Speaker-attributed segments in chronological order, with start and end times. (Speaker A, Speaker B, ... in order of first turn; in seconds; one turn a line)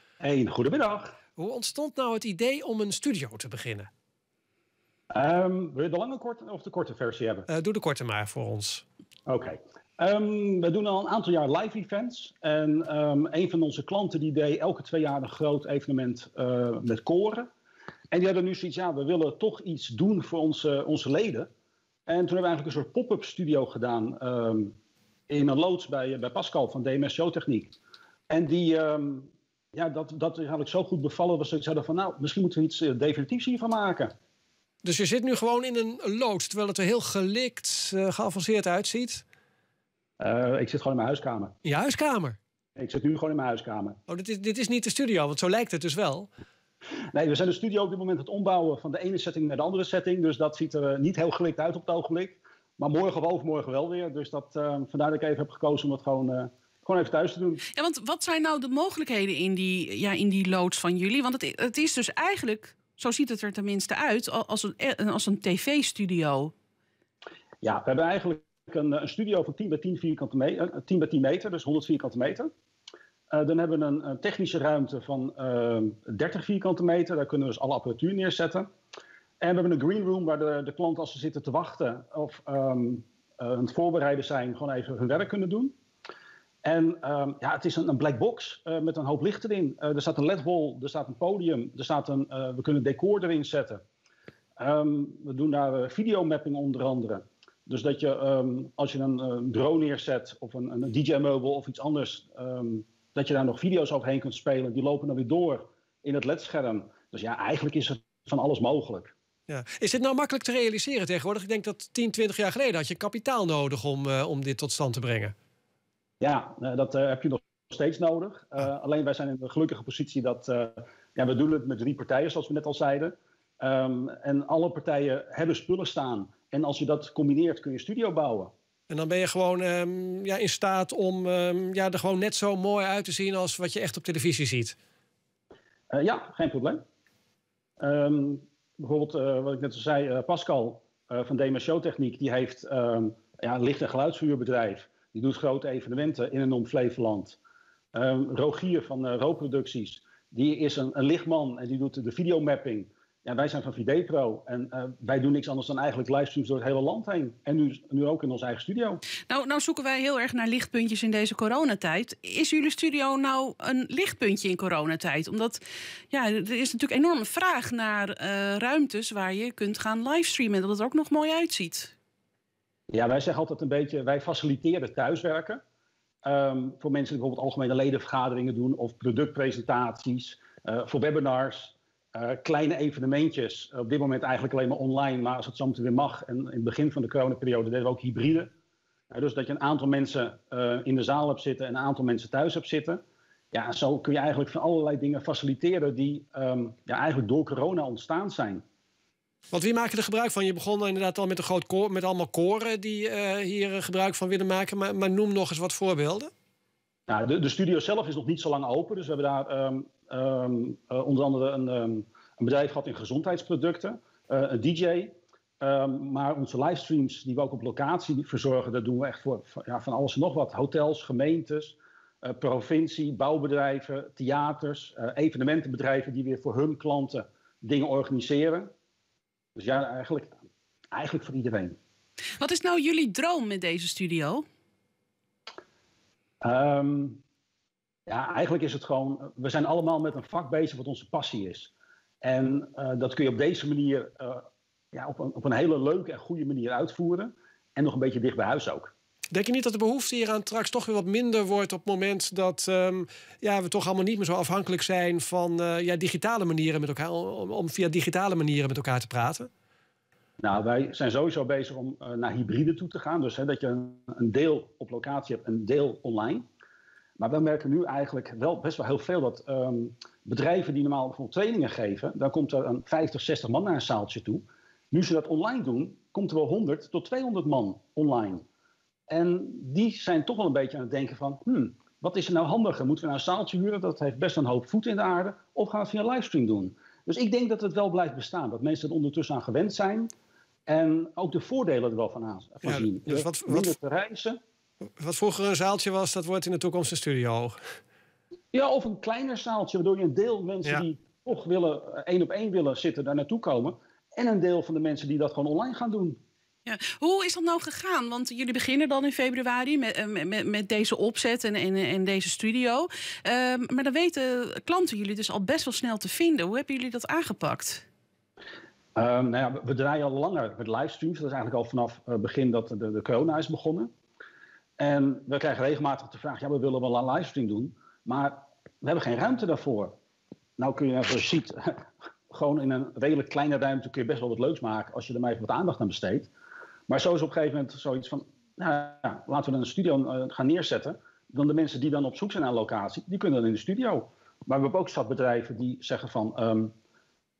Speaker A: 0.2-1.2
Speaker B: 1.4-3.9
Speaker A: 5.1-7.5
Speaker B: 7.5-8.8
Speaker A: 9.3-17.5
Speaker A: 18.1-21.5
Speaker A: 22.1-24.7
Speaker A: 25.3-27.7
Speaker A: 28.3-34.1
Speaker B: 34.8-39.2
Speaker A: 40.2-41.5
Speaker B: 41.6-42.4
Speaker A: 42.8-44.0
Speaker B: 44.1-46.3
Speaker A: 47.1-57.6
Speaker C: 57.7-66.5
Speaker A: 67.6-72.5
Speaker A: 73.3-78.7
Speaker A: 79.4-85.7
Speaker A: 86.6-93.8
Speaker A: 94.6-109.1
Speaker B: 109.5-115.3
Speaker A: 116.2-128.5
Speaker B: 128.9-134.8
Speaker A: 135.9-136.8
Speaker A: 137.8-147.4
Speaker A: 147.9-159.0
Speaker C: 159.3-171.9
Speaker A: 172.9-175.6
Speaker A: 176.2-188.5
Speaker A: 189.1-193.0
Speaker A: 193.5-198.6
Speaker B: 199.5-206.3
Speaker A: 207.1-228.7
Speaker A: 229.6-231.8
Speaker C: 232.4-234.4
Speaker A: 236.4-237.2
Speaker A: 238.1-248.9
Speaker B: 249.3-259.5
Speaker A: 260.4-266.4
Speaker A: 267.2-278.4
Speaker A: 279.1-290.1
Speaker A: 290.7-294.4
Speaker B: 292.6-293.7
Speaker B: 295.0-297.6
Speaker A: 298.5-306.2
Speaker C: 306.6-317.9
Speaker A: 318.9-323.9
Speaker A: 324.8-329.9
Speaker A: 330.6-336.3
Speaker A: 336.9-346.7